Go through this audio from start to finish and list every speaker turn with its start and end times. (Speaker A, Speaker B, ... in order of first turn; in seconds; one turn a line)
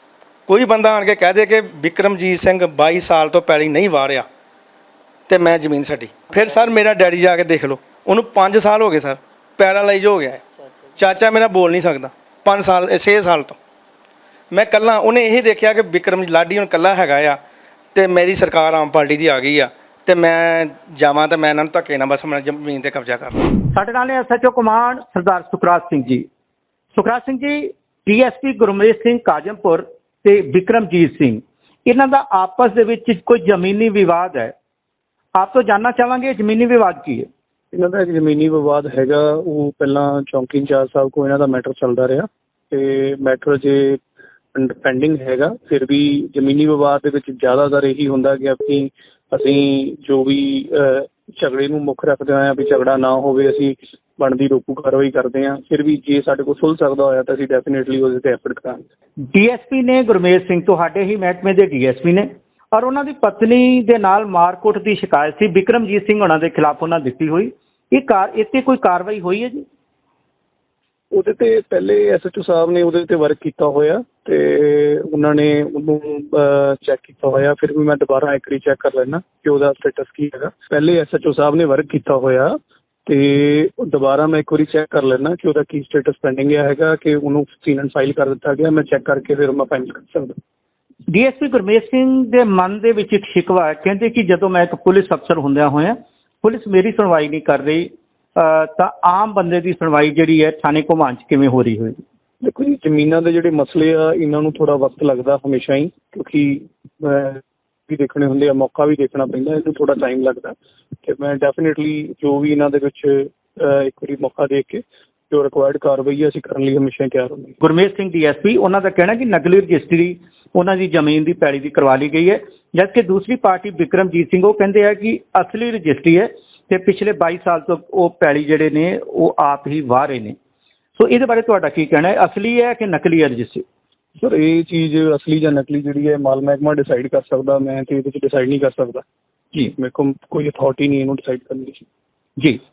Speaker A: 0.5-4.2
Speaker A: 5.3-10.4
Speaker A: 10.9-13.6
Speaker A: 14.5-17.4
Speaker A: 17.9-23.4
Speaker B: 23.7-26.2
Speaker B: 26.9-34.5
Speaker B: 35.4-37.3
Speaker C: 37.7-44.0
Speaker C: 44.5-58.8
Speaker B: 59.3-69.6
Speaker C: 71.1-82.5
Speaker C: 83.0-90.3
Speaker B: 91.1-102.0
Speaker C: 102.4-117.5
Speaker B: 117.6-130.3
Speaker B: 130.9-133.6
Speaker C: 134.2-139.0
Speaker C: 139.7-141.8